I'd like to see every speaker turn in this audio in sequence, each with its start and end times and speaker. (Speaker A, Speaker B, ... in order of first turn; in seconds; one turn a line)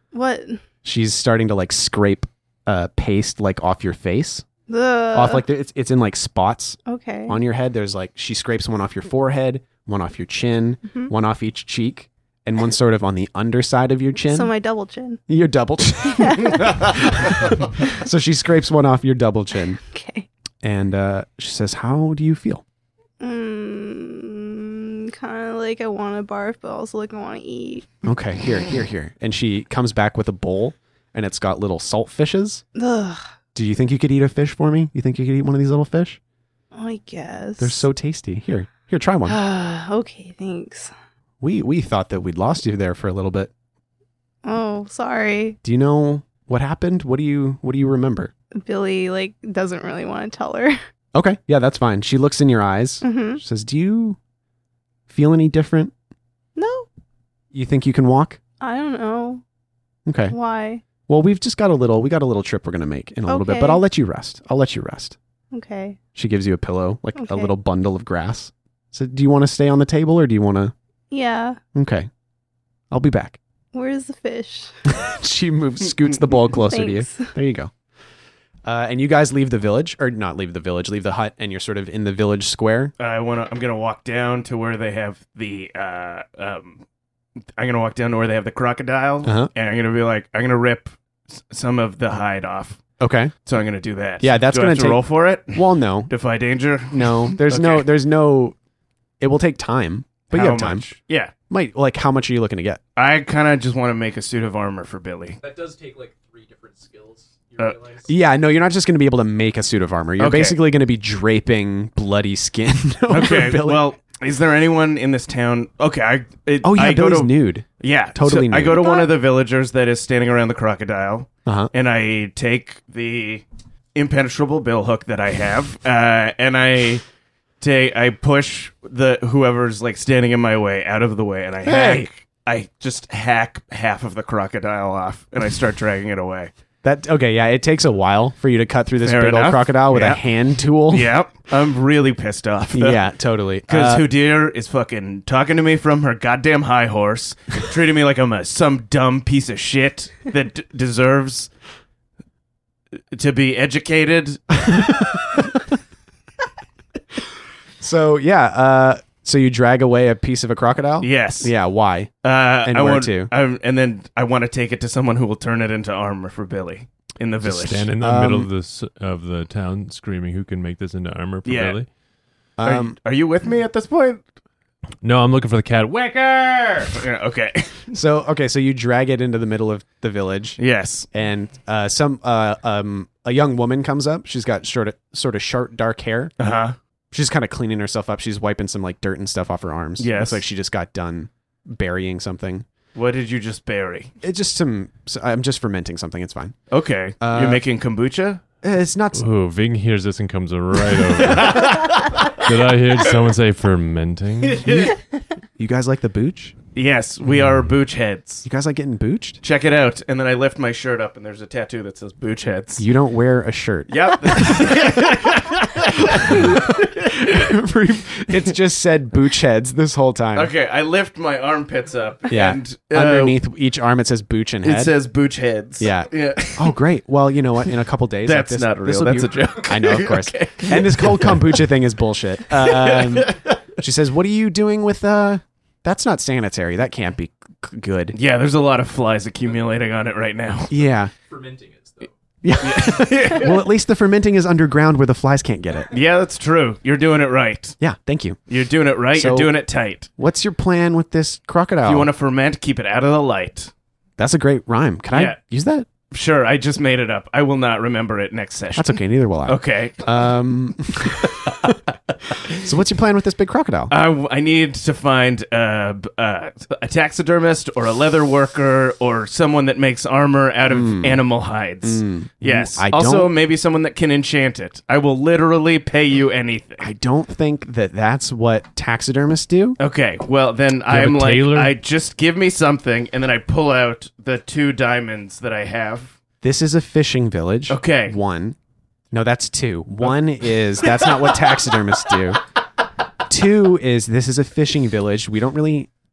Speaker A: 0.1-0.6
Speaker B: 0.8-4.5
Speaker A: 4.7-5.4
Speaker B: 5.1-14.5
Speaker A: 6.9-7.4
Speaker A: 14.3-15.2
Speaker B: 15.3-19.8
Speaker A: 16.0-16.8
Speaker A: 19.9-20.3
Speaker B: 20.6-22.6
Speaker A: 23.2-27.9
Speaker B: 28.0-32.6
Speaker A: 32.8-33.2
Speaker B: 33.5-36.2
Speaker A: 36.7-37.9
Speaker B: 37.6-39.4
Speaker A: 39.3-40.9
Speaker B: 41.4-43.5
Speaker A: 44.5-45.6
Speaker B: 45.6-48.3
Speaker A: 48.6-50.8
Speaker B: 51.1-54.2
Speaker A: 53.0-53.4
Speaker B: 55.1-55.9
Speaker A: 56.6-56.9
Speaker B: 57.5-58.4
Speaker A: 58.6-59.4
Speaker B: 60.1-60.4
Speaker A: 60.3-60.8
Speaker B: 61.1-65.2
Speaker A: 63.3-63.8
Speaker A: 65.5-66.0
Speaker B: 66.2-70.7
Speaker A: 67.2-67.5
Speaker A: 71.1-71.6
Speaker B: 71.8-72.1
Speaker B: 72.9-73.4
Speaker A: 73.7-74.7
Speaker B: 74.9-77.7
Speaker A: 76.7-77.3
Speaker B: 78.7-82.9
Speaker C: 83.0-86.8
Speaker C: 87.6-92.8
Speaker B: 89.2-89.5
Speaker B: 93.0-93.3
Speaker C: 93.5-97.9
Speaker B: 94.2-96.1
Speaker B: 96.9-98.6
Speaker B: 99.2-100.9
Speaker C: 100.3-101.3
Speaker B: 101.5-102.8
Speaker C: 103.0-105.4
Speaker D: 105.4-108.1
Speaker B: 108.1-113.9
Speaker C: 110.2-110.6
Speaker C: 113.1-123.4
Speaker B: 116.6-119.0
Speaker A: 118.8-119.1
Speaker B: 121.5-121.7
Speaker C: 124.0-127.0
Speaker C: 127.6-136.5
Speaker B: 131.6-132.1
Speaker B: 136.8-141.2
Speaker C: 139.0-140.2
Speaker C: 140.9-143.0
Speaker B: 142.7-144.1
Speaker C: 143.7-151.5
Speaker C: 153.1-155.1
Speaker B: 154.7-155.3
Speaker B: 157.8-162.1
Speaker C: 161.0-161.5
Speaker C: 162.2-167.9
Speaker B: 162.7-163.3
Speaker E: 167.4-171.9
Speaker B: 167.9-168.5
Speaker C: 171.4-171.8
Speaker B: 172.6-173.0
Speaker C: 172.6-174.2
Speaker E: 175.0-177.0
Speaker C: 176.9-177.8
Speaker B: 177.9-180.6
Speaker C: 180.6-181.1
Speaker B: 181.1-186.3
Speaker C: 186.4-186.8
Speaker B: 187.1-192.7
Speaker C: 190.0-190.4
Speaker C: 192.9-194.1
Speaker B: 194.2-196.6
Speaker C: 196.7-198.4
Speaker B: 197.2-197.6
Speaker B: 198.6-199.2
Speaker E: 199.1-204.9
Speaker C: 201.2-202.5
Speaker C: 204.5-204.9
Speaker B: 205.6-206.6
Speaker C: 206.8-208.5
Speaker E: 207.3-207.7
Speaker B: 208.4-209.4
Speaker C: 209.4-212.8
Speaker B: 212.8-215.0
Speaker C: 213.9-217.5
Speaker B: 216.0-220.5
Speaker C: 220.3-223.4
Speaker B: 222.3-224.9
Speaker C: 224.6-226.8
Speaker B: 225.8-238.2
Speaker C: 228.2-231.5
Speaker C: 232.5-233.6
Speaker C: 238.1-240.7
Speaker B: 240.7-241.1
Speaker D: 241.3-242.1
Speaker B: 242.4-245.9
Speaker C: 242.6-243.7
Speaker C: 245.9-247.8
Speaker B: 247.8-248.4
Speaker C: 248.5-250.1
Speaker B: 249.1-249.6
Speaker B: 250.2-252.1
Speaker C: 251.8-253.7
Speaker B: 254.2-255.9
Speaker C: 255.1-255.4
Speaker C: 256.1-260.3
Speaker B: 258.8-261.8
Speaker C: 261.2-261.7
Speaker C: 262.3-262.6
Speaker B: 262.5-263.9
Speaker C: 263.9-276.9
Speaker B: 270.7-271.2
Speaker B: 271.8-273.3
Speaker B: 276.8-279.8
Speaker C: 279.8-286.1
Speaker E: 280.9-281.8
Speaker B: 286.4-288.6
Speaker C: 287.7-288.2
Speaker B: 289.1-292.4
Speaker B: 293.3-295.9